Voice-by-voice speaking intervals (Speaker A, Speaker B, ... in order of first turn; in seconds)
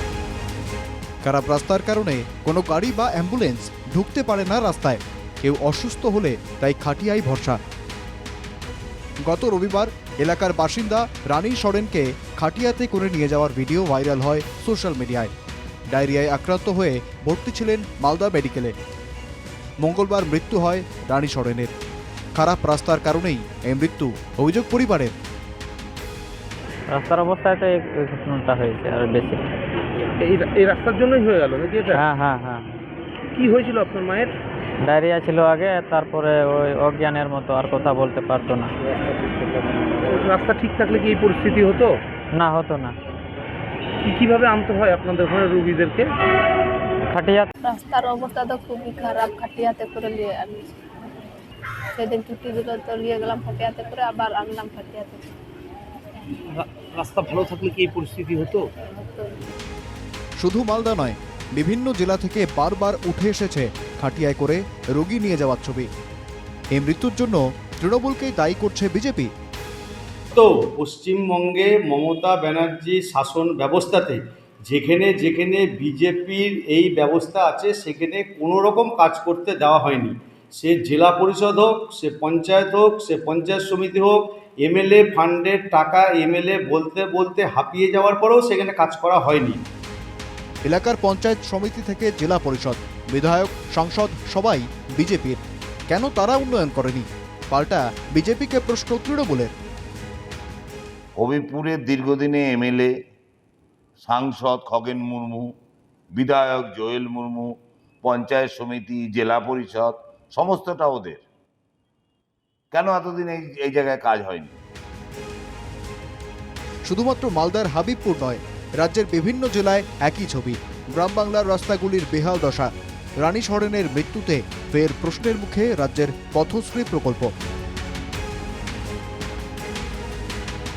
Speaker A: 1.2-7.6, 9.2-15.3, 15.9-18.7, 19.8-21.7, 22.3-25.1, 60.4-65.9, 66.7-69.3, 90.6-99.5, 116.8-127.3
Speaker B: 26.9-29.4, 31.9-32.8, 34.8-38.7, 42.3-43.0, 47.1-47.5
Speaker C: 30.2-32.0, 33.4-34.3, 40.2-41.9, 44.0-46.1, 56.7-58.6
Speaker D: 31.5-31.8, 101.2-102.9, 104.0-105.5, 106.2-111.2, 112.7-114.5
Speaker E: 47.6-50.8, 51.9-55.2, 59.0-59.5
Speaker F: 70.3-89.6